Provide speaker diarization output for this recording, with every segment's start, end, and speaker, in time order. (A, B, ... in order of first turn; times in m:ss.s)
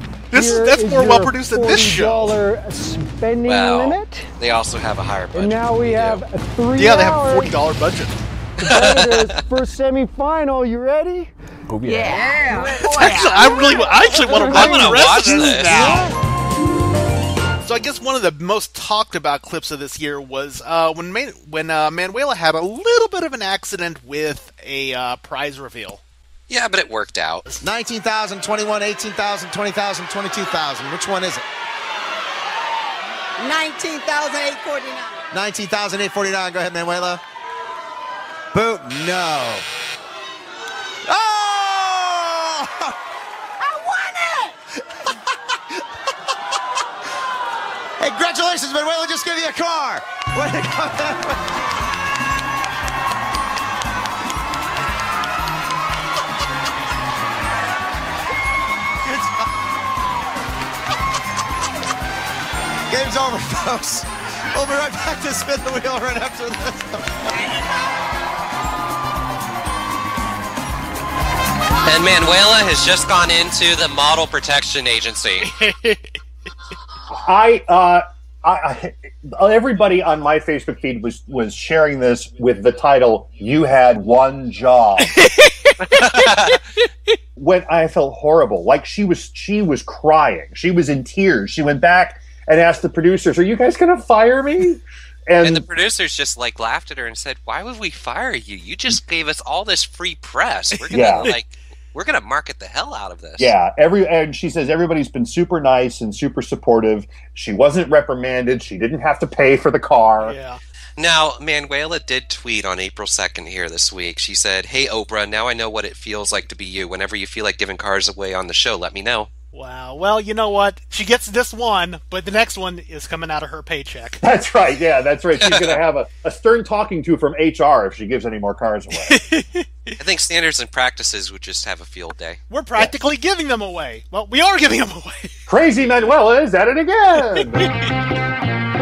0:00.3-0:02.4 A
0:00.3-0:04.3 B
0:03.4-0:06.2 C
0:05.3-0:07.5 B
0:06.7-0:08.2 A
0:08.6-0:11.3 B
0:08.6-0:09.3 C
0:11.8-0:13.8 D
0:12.8-0:16.1 A
0:14.2-0:16.0 C
0:17.6-0:26.0 A
0:26.5-0:27.4 C
0:27.6-0:31.4 E
0:33.4-0:35.0 D
0:35.3-0:37.2 E
0:38.5-0:39.6 E
0:41.1-0:42.9 E
0:48.0-0:51.4 E
0:59.0-0:59.4 E
1:02.9-1:07.1 E
1:11.8-1:15.5 C
1:15.4-1:16.1 A
1:17.2-1:25.1 F
1:25.0-1:26.6 A
1:25.9-1:26.5 C
1:27.4-1:35.6 F
1:35.4-1:43.5 C
1:40.7-1:41.3 A
1:40.9-1:41.3 F
1:43.4-1:50.4 F
1:50.2-1:50.6 A
1:51.0-1:59.3 C
1:59.5-2:04.2 A
2:04.2-2:09.2 F
2:05.4-2:05.8 C
2:09.0-2:10.0 A
2:10.0-2:12.4 C
2:12.5-2:15.4 A
2:15.5-2:17.7 F
2:17.2-2:17.9 A